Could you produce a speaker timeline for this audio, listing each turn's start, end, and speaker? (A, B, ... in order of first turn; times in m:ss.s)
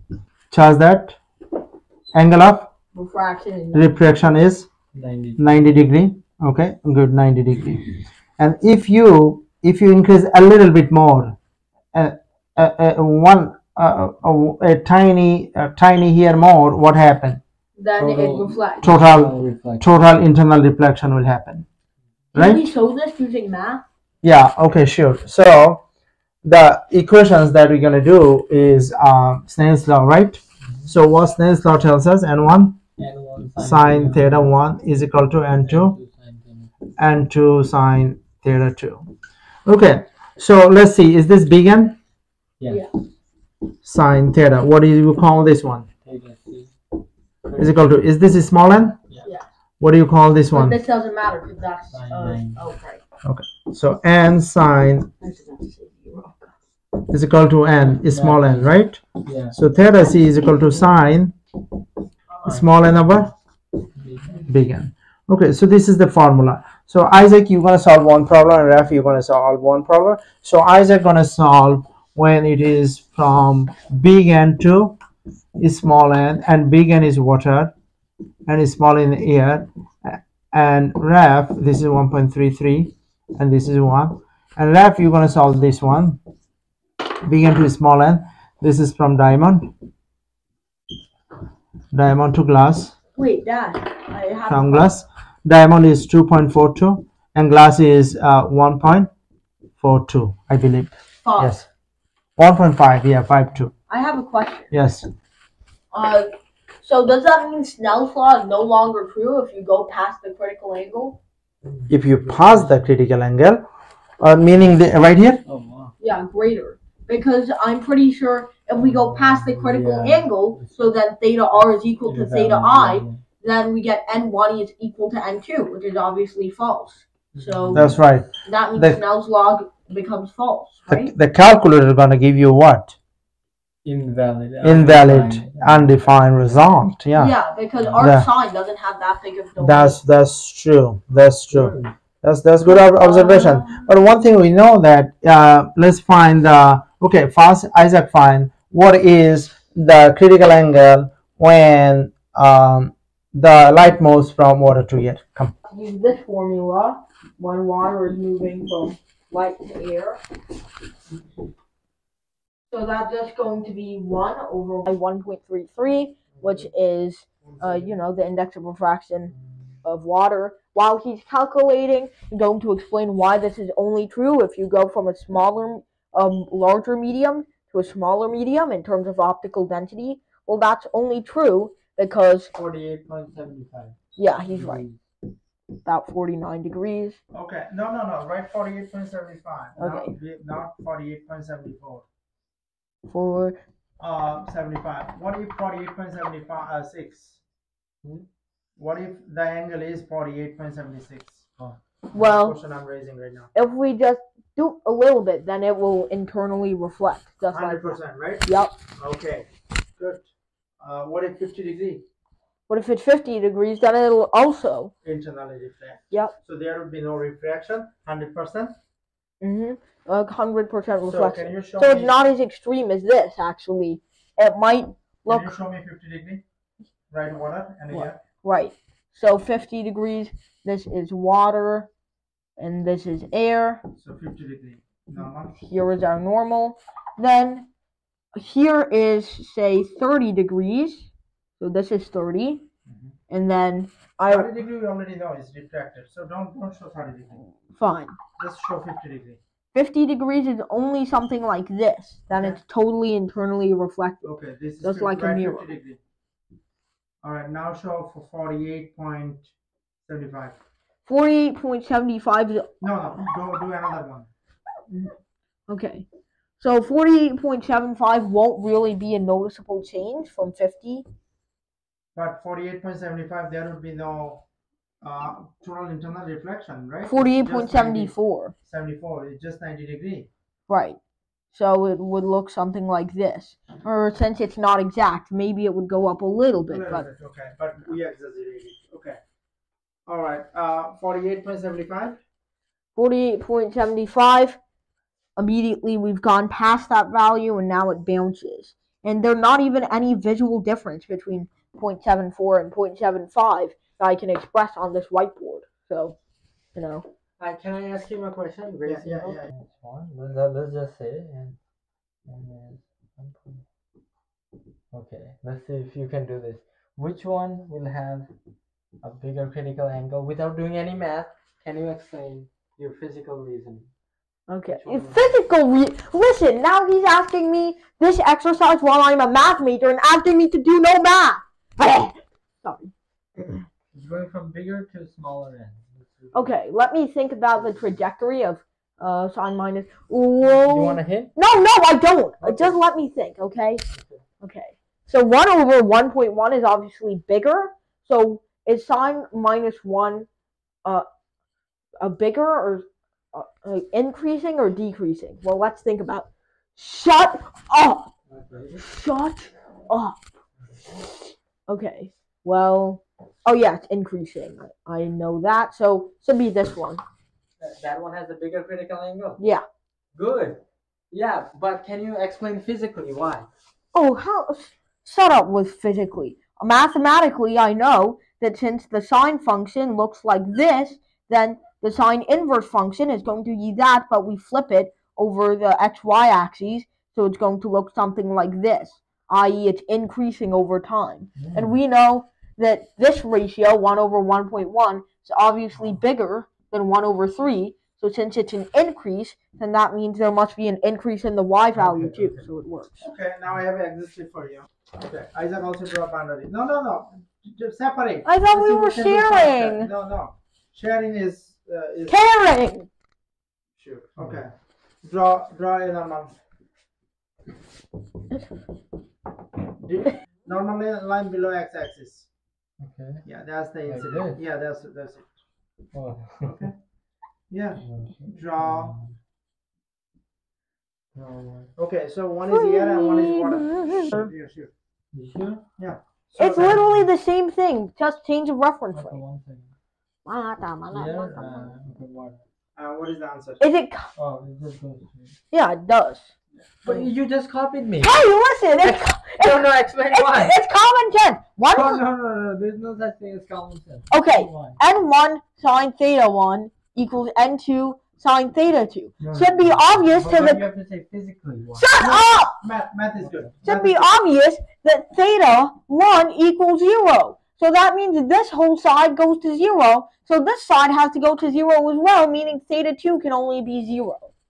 0:00.5-0:01.2 A
0:02.1-0:02.7 A
0:02.9-0:04.0 B
0:03.7-0:04.7 A
0:04.9-0:05.7 C
0:05.4-0:11.4 A
0:11.9-0:17.4 A
0:17.8-0:18.8 B
0:18.0-0:19.9 C
0:18.8-0:21.6 A
0:22.3-0:23.8 B
0:22.3-0:22.7 A
0:24.2-0:25.8 A
0:26.4-0:32.8 A
0:33.0-0:34.5 C
0:33.6-0:35.9 A
0:35.6-0:36.7 C
0:37.0-0:39.1 A
0:39.6-0:42.0 A
0:42.7-0:42.9 B
0:43.8-0:45.9 A
0:46.0-0:46.7 C
0:47.5-0:47.9 C
0:47.6-0:49.0 A
0:49.8-0:50.8 A
0:50.5-0:53.0 B
0:51.9-0:52.6 C
0:53.2-0:55.1 A
0:55.2-0:56.5 B
0:57.0-1:01.4 A
0:57.8-0:59.6 C
1:02.4-1:03.3 A
1:04.0-1:04.5 C
1:04.4-1:15.0 A
1:15.6-1:17.7 A
1:18.5-1:26.2 A
1:27.2-1:29.7 A
1:31.9-1:33.0 A
1:33.2-1:34.9 B
1:34.5-1:39.1 A
1:39.8-1:41.7 A
1:41.2-1:41.6 B
1:42.4-1:43.7 A
1:43.9-1:44.7 B
1:44.7-1:45.1 A
1:45.9-1:51.2 B
1:51.6-1:52.9 C
1:51.9-1:53.6 A
1:54.2-1:55.4 A
1:55.4-1:55.9 C
1:56.0-2:07.9 B
1:58.8-2:00.9 C
2:02.0-2:03.2 C
2:07.3-2:08.0 C
2:07.7-2:09.0 A
2:08.4-2:11.1 B
2:10.9-2:13.0 A
2:13.8-2:16.1 C
2:14.6-2:17.3 A
2:17.1-2:20.0 B
2:17.7-2:18.0 C
2:18.0-2:18.3 A
2:19.6-2:35.6 A
2:21.5-2:21.9 C
2:22.6-2:23.9 B
2:35.7-2:40.2 B
2:42.7-2:49.3 B
2:46.4-2:46.7 C
2:47.4-2:47.9 A
2:49.3-2:49.6 C
2:49.8-3:02.5 B
3:02.5-3:04.0 C
3:04.2-3:04.8 B
3:04.5-3:05.0 C
3:05.8-3:07.2 B
3:07.3-3:12.0 A
3:09.8-3:10.1 B
3:13.1-3:13.6 B
3:14.0-3:17.4 A
3:18.8-3:21.4 A
3:22.1-3:23.5 A
3:22.1-3:22.6 B
3:23.5-3:28.8 B
3:27.5-3:30.3 A
3:30.8-3:32.0 A
3:32.7-3:34.9 B
3:35.0-3:38.7 A
3:39.4-3:45.5 B
3:41.0-3:42.2 A
3:45.3-3:46.4 A
3:47.1-3:48.2 A
3:48.4-3:51.9 B
3:52.6-3:53.8 B
3:54.0-3:55.6 A
3:55.6-3:57.7 B
3:58.4-4:02.6 B
4:03.3-4:04.5 B
4:04.2-4:07.4 A
4:07.7-4:08.2 B
4:08.4-4:09.4 A
4:09.7-4:14.2 B
4:12.3-4:12.6 A
4:14.2-4:16.0 A
4:14.8-4:15.7 B
4:17.2-4:19.5 A
4:20.1-4:20.6 A
4:21.0-4:22.7 B
4:22.8-4:24.3 A
4:24.9-4:25.1 B
4:25.7-4:26.1 B
4:26.6-4:31.0 B
4:32.1-4:34.4 A
4:35.0-4:40.3 A
4:37.0-4:38.5 B
4:40.7-4:41.0 B
4:41.5-4:47.1 B
4:46.7-4:49.2 A
4:50.1-4:52.2 A
4:53.0-4:54.6 B
4:55.4-5:06.2 B
5:06.7-5:07.0 B
5:07.4-5:11.6 C
5:08.8-5:09.5 A
5:12.3-5:13.6 C
5:14.9-5:18.3 C
5:19.0-5:23.9 C
5:24.5-5:33.6 B
5:24.7-5:25.4 C
5:33.9-5:36.6 C
5:36.3-5:43.8 B
5:37.6-5:37.9 C
5:40.4-5:41.3 C
5:42.4-5:42.8 C
5:43.9-5:44.2 C
5:44.4-5:50.3 B
5:52.0-5:58.1 B
5:58.3-5:58.8 C
5:58.8-6:00.2 B
6:01.7-6:07.0 B
6:07.6-6:09.4 C
6:10.1-6:13.5 C
6:13.9-6:43.1 B
6:31.4-6:31.8 C
6:41.7-6:42.5 C
6:43.0-6:52.2 A
6:48.2-6:49.9 B
6:52.1-6:52.9 B
6:53.8-6:56.3 A
6:54.2-6:54.4 C
6:59.7-7:02.3 A
7:02.8-7:03.2 C
7:03.2-7:05.3 A
7:03.9-7:04.4 C
7:05.9-7:06.6 C
7:06.4-7:06.8 A
7:07.5-7:09.0 A
7:07.8-7:09.1 C
7:11.2-7:11.7 C
7:11.8-7:14.7 A
7:12.5-7:14.3 B
7:15.1-7:15.6 C
7:15.8-7:17.1 A
7:16.4-7:19.2 B
7:18.9-7:19.7 C
7:20.2-7:21.7 B
7:20.9-7:22.4 C
7:22.8-7:23.6 A
7:23.6-7:24.1 B
7:24.2-7:25.4 C
7:25.5-7:26.3 B
7:26.6-7:27.1 A
7:26.8-7:30.6 C
7:28.0-7:32.0 B
7:31.7-7:34.8 C
7:34.1-7:40.6 B
7:39.2-7:40.0 A
7:40.0-7:41.9 C
7:41.8-7:42.6 B
7:42.0-7:44.1 A
7:43.2-7:43.5 C
7:43.6-7:54.3 B